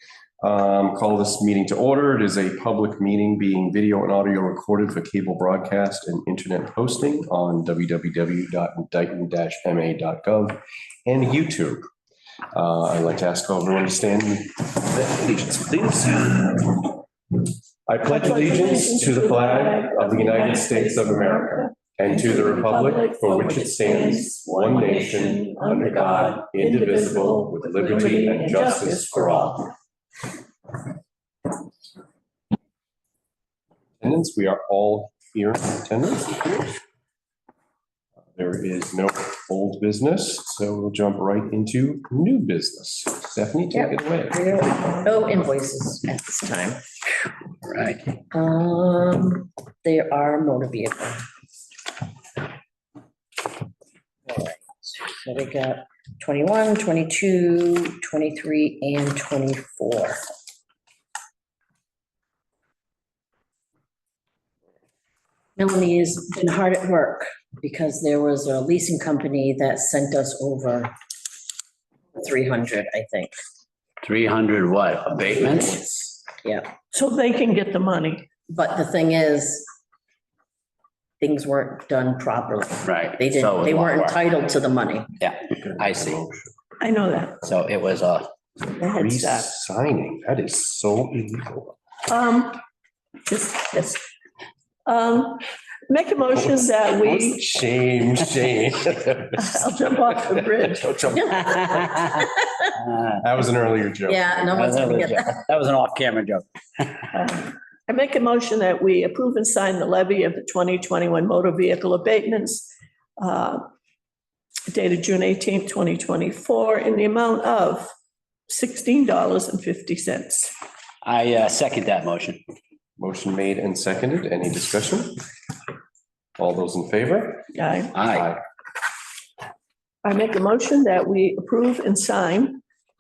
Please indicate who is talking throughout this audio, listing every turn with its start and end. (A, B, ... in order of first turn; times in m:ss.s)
0:00.4-0:11.9 A
0:12.5-0:17.0 A
0:17.9-0:29.6 A
0:18.1-0:29.7 B
0:34.0-0:36.6 A
0:38.3-0:44.5 A
0:43.7-0:46.8 C
0:47.6-0:48.0 D
0:48.3-0:51.2 C
0:54.3-1:00.2 C
1:05.6-1:10.9 C
1:12.2-1:13.3 C
1:14.0-1:15.8 D
1:15.6-1:16.7 C
1:16.9-1:18.3 B
1:18.5-1:19.7 C
1:21.2-1:25.1 C
1:22.8-1:24.2 D
1:25.2-1:26.2 D
1:25.6-1:26.5 A
1:26.8-1:27.4 B
1:27.4-1:28.3 D
1:28.7-1:29.5 B
1:28.9-1:31.7 A
1:32.1-1:32.6 B
1:33.3-1:34.0 B
1:34.8-1:37.4 B
1:36.4-1:39.6 A
1:39.4-1:41.0 B
1:40.8-1:42.0 A
1:41.1-1:42.7 C
1:41.5-1:42.0 D
1:42.8-1:43.1 D
1:43.2-1:44.7 A
1:44.1-1:45.4 C
1:44.5-1:46.9 D
1:47.1-1:53.7 B
1:54.7-1:57.9 B
1:58.5-2:00.5 B
2:01.0-2:02.4 D
2:03.0-2:05.2 A
2:06.4-2:07.5 A
2:07.5-2:08.0 B
2:07.9-2:08.3 D
2:08.0-2:08.4 A
2:10.0-2:12.6 B